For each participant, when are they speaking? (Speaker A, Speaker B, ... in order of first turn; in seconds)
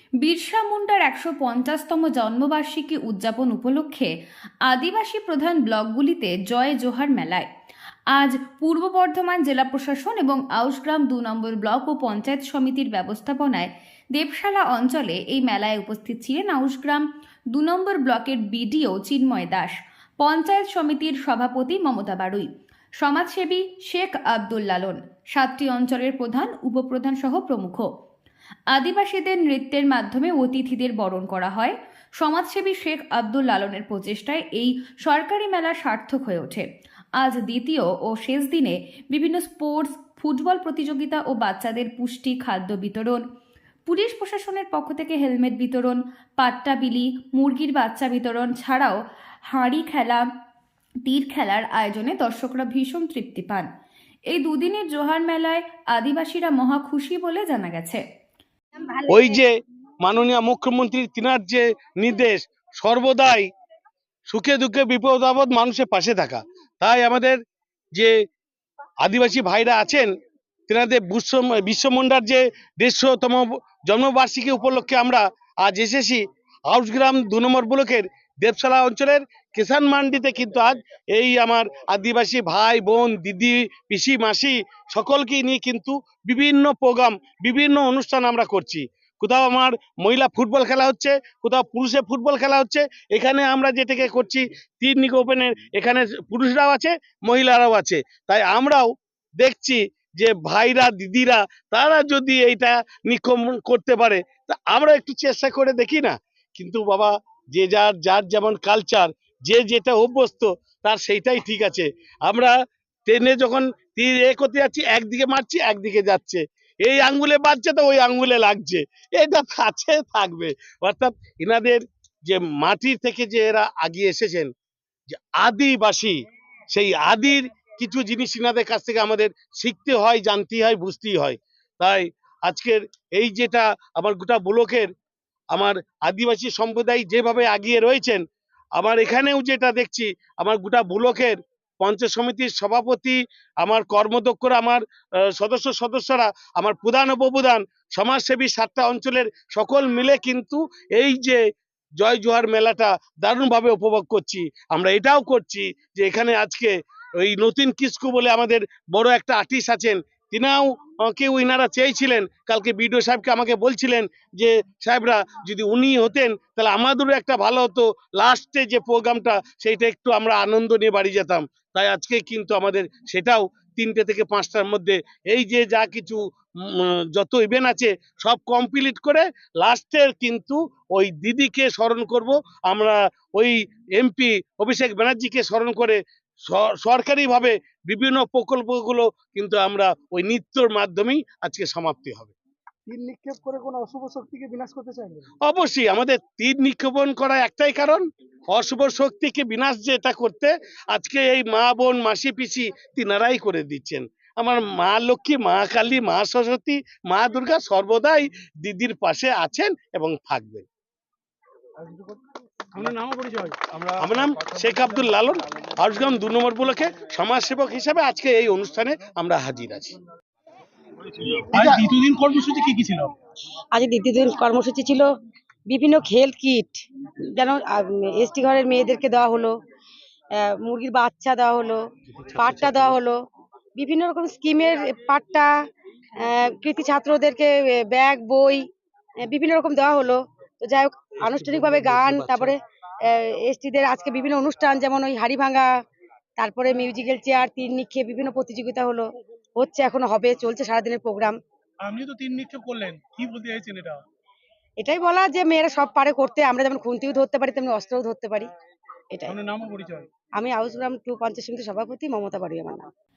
Speaker A: 0.2-4.1, 4.7-7.5, 8.1-22.5, 23.0-27.9, 28.7-36.6, 37.2-43.2, 43.9-49.0, 49.5-50.3, 51.0-53.7, 54.3-58.0
Speaker B: 58.8-59.4, 223.7-225.1, 225.7-226.8, 227.3-229.5, 230.4-231.8, 232.3-233.2, 233.8-235.5, 236.2-238.6, 239.2-245.7, 246.4-249.0, 249.6-251.4, 254.8-258.5, 260.4-262.9
Speaker C: 59.1-59.5, 60.0-63.5, 64.3-67.4, 69.0-70.1, 70.7-98.9, 99.4-112.5, 113.1-124.5, 125.1-126.2, 126.7-134.9, 135.5-138.2, 138.8-151.4, 152.0-192.3, 192.9-210.7, 214.0-219.9, 221.5-221.9, 232.2-232.9, 241.4-242.5
Speaker D: 211.8-212.2, 212.7-215.3, 221.3-223.1, 251.8-254.0, 259.3-260.1